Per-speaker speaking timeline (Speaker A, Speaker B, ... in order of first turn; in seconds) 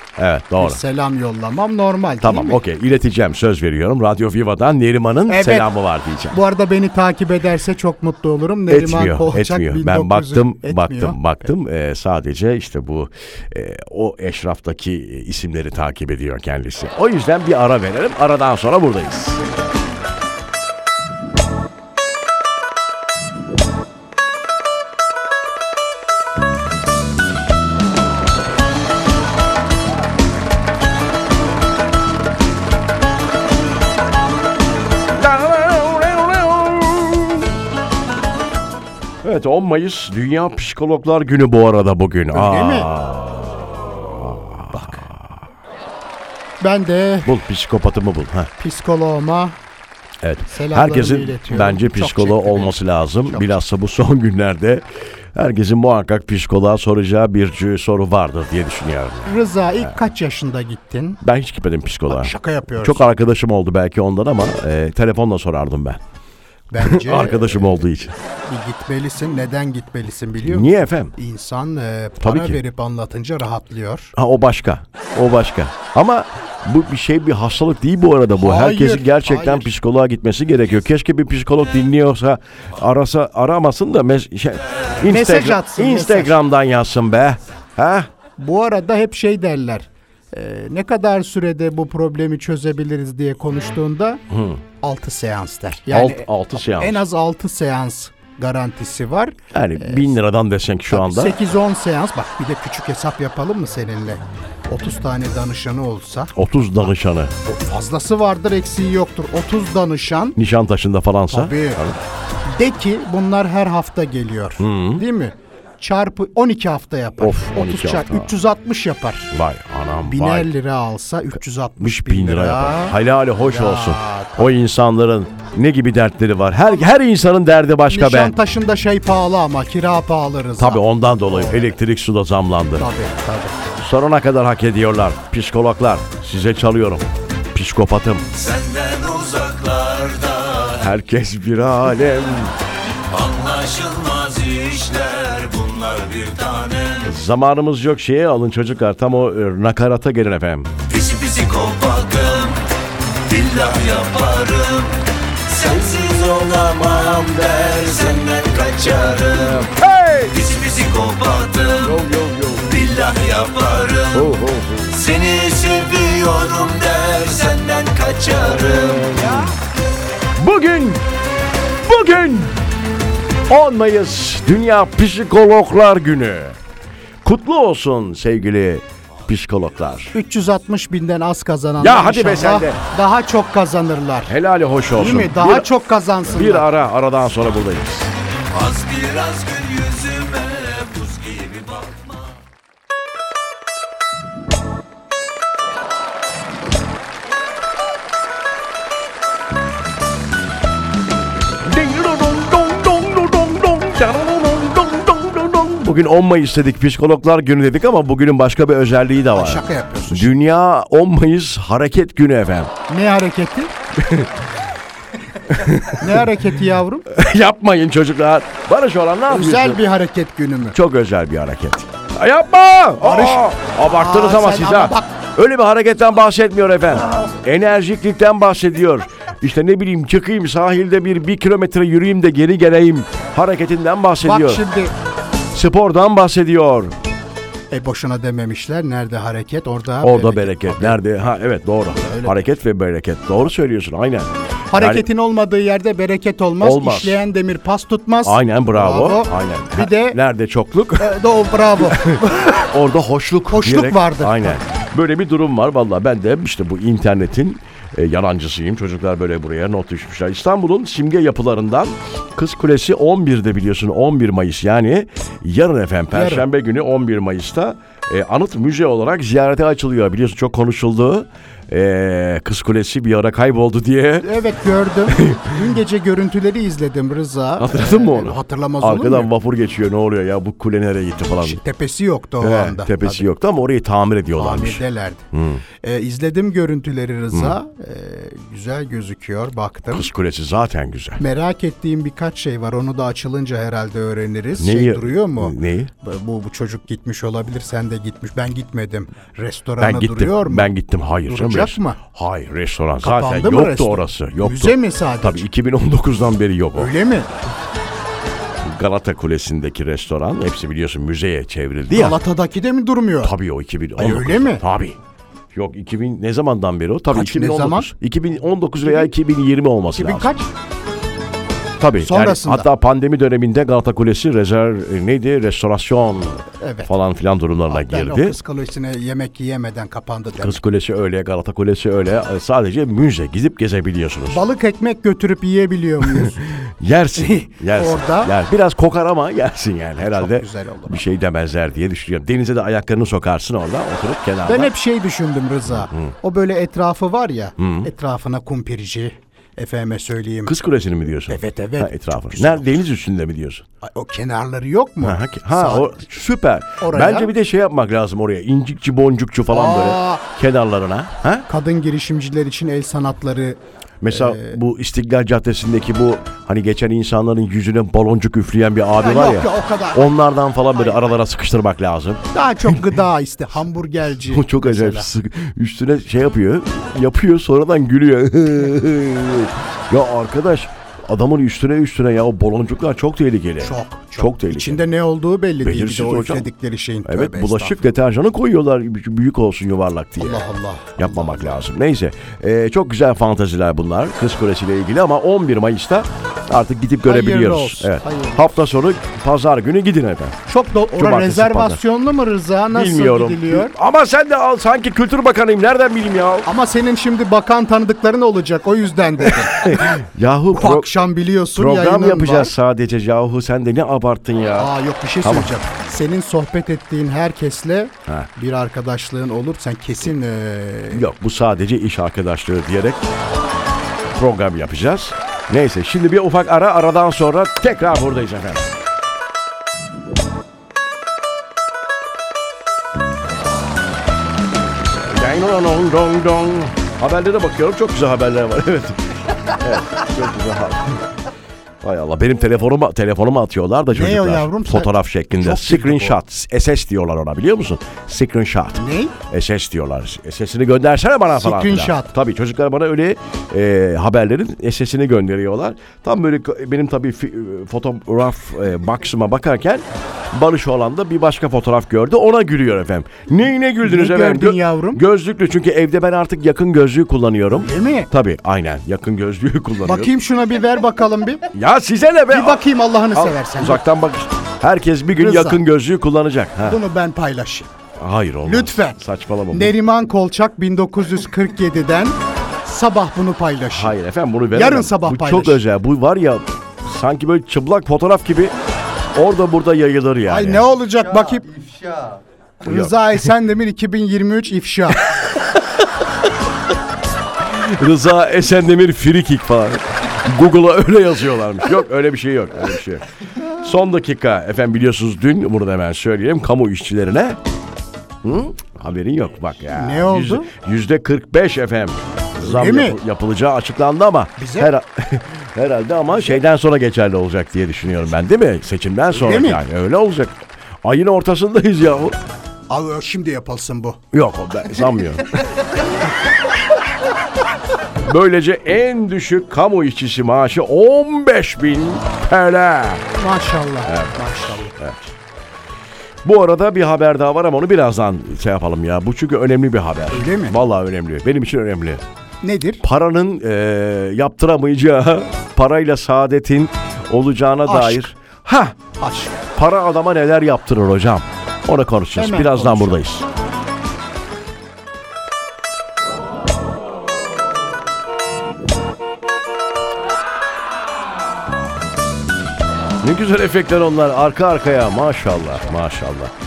Speaker A: 0.2-0.8, 2.2-6.4, 8.7-19.4, 35.2-37.5, 39.2-45.4, 47.2-48.5, 50.2-59.9, 61.2-66.0, 66.8-68.2, 70.4-71.1, 72.2-72.6, 74.2-88.1, 94.3-94.6, 95.9-97.0, 99.5-101.4, 106.3-107.3, 110.3-112.0, 114.6-115.0, 117.2-118.3, 119.3-120.5, 121.8-128.3, 130.6-132.9, 133.8-138.3, 140.8-142.5, 147.0-150.8, 159.5-160.3, 161.8-162.7, 164.1-164.9, 169.1-169.5, 170.4-171.0, 171.8-172.6, 173.5-176.6, 177.2-180.1, 181.8-182.8, 184.3-185.7, 186.3-188.1, 201.6-212.7, 213.9-214.3, 215.5-216.2, 217.1-219.8, 220.7-234.6, 235.5-236.9, 240.0-245.1, 246.6-247.2, 248.2-251.1, 251.8-274.3, 275.1-275.6, 277.6-281.6, 282.4-285.6, 289.9-291.2, 294.6-295.9, 299.8-306.9, 308.6-312.2, 313.2-315.0, 315.5-320.3, 321.8-328.4, 330.4-334.4, 336.1-344.7, 347.6-347.9, 350.4-353.6, 355.0-361.4, 364.0-372.8, 374.2-384.8, 385.6-386.5, 387.0-390.4, 391.0-400.4, 400.9-401.8, 402.7-406.5, 409.2-410.9, 411.5-415.5, 420.9-423.1, 424.1-428.7, 435.0-441.0, 441.8-470.1, 471.5-476.8, 478.0-479.8, 483.7-488.5, 489.1-490.6, 492.6-493.1, 495.1-495.6, 497.4-507.4, 508.2-522.2, 524.1-525.5, 528.0-533.1, 533.9-535.0, 536.2-542.0, 542.8-548.8, 549.5-553.3, 563.0-566.3
Speaker B: 0.6-2.6, 5.3-5.7, 6.3-11.2, 42.3-42.9, 44.7-45.0, 46.6-47.3, 48.6-49.6, 50.5-53.6, 59.2-61.2, 62.1-63.2, 66.7-67.8, 68.5-74.1, 78.3-79.7, 85.0-86.4, 88.4-94.2, 94.8-100.1, 100.9-106.3, 107.4-110.4, 111.3-111.8, 112.5-119.3, 120.0-124.5, 127.9-131.8, 132.8-133.6, 180.1-184.3, 184.9-186.7, 209.3-210.3, 212.9-213.7, 215.9-217.1, 219.3-220.8, 223.0-225.1, 234.2-234.9, 237.7-241.0, 242.0-242.4, 244.7-250.2, 251.0-252.7, 253.5-254.6, 266.1-266.4, 274.2-279.3, 281.4-283.3, 284.4-285.3, 285.8-290.1, 291.2-300.7, 301.2-302.0, 303.0-305.4, 306.8-307.3, 311.9-313.4, 314.0-314.6, 317.1-317.9, 318.8-319.1, 319.9-320.5, 322.0-322.7, 326.6-326.9, 327.7-330.6, 334.3-336.5, 337.2-338.3, 340.0-341.0, 344.4-350.5, 351.3-352.7, 353.8-355.9, 356.8-357.3, 359.5-360.2, 361.5-364.6, 369.0-370.1, 370.7-371.0, 372.3-375.1, 383.6-387.8, 390.2-391.6, 397.0-398.5, 400.5-403.8, 406.4-412.5, 414.6-421.1, 443.9-446.2, 448.8-449.1, 451.3-452.1, 463.8-465.0, 467.6-468.1, 469.8-471.5, 472.3-473.8, 475.1-475.6, 476.6-477.7, 478.4-479.0, 479.5-483.9, 484.5-485.6, 490.2-491.5, 492.6-495.1, 509.7-510.5, 512.4-513.0, 514.4-514.7, 519.1-519.6, 522.7-524.0, 533.1-534.7, 540.1-540.5, 542.4-542.8, 547.6-548.0, 549.0-549.4, 552.1-553.0
Speaker C: 138.3-140.9, 143.1-147.1, 150.9-152.6, 153.3-159.7, 160.2-162.0, 162.7-164.3, 164.9-169.5, 188.5-192.2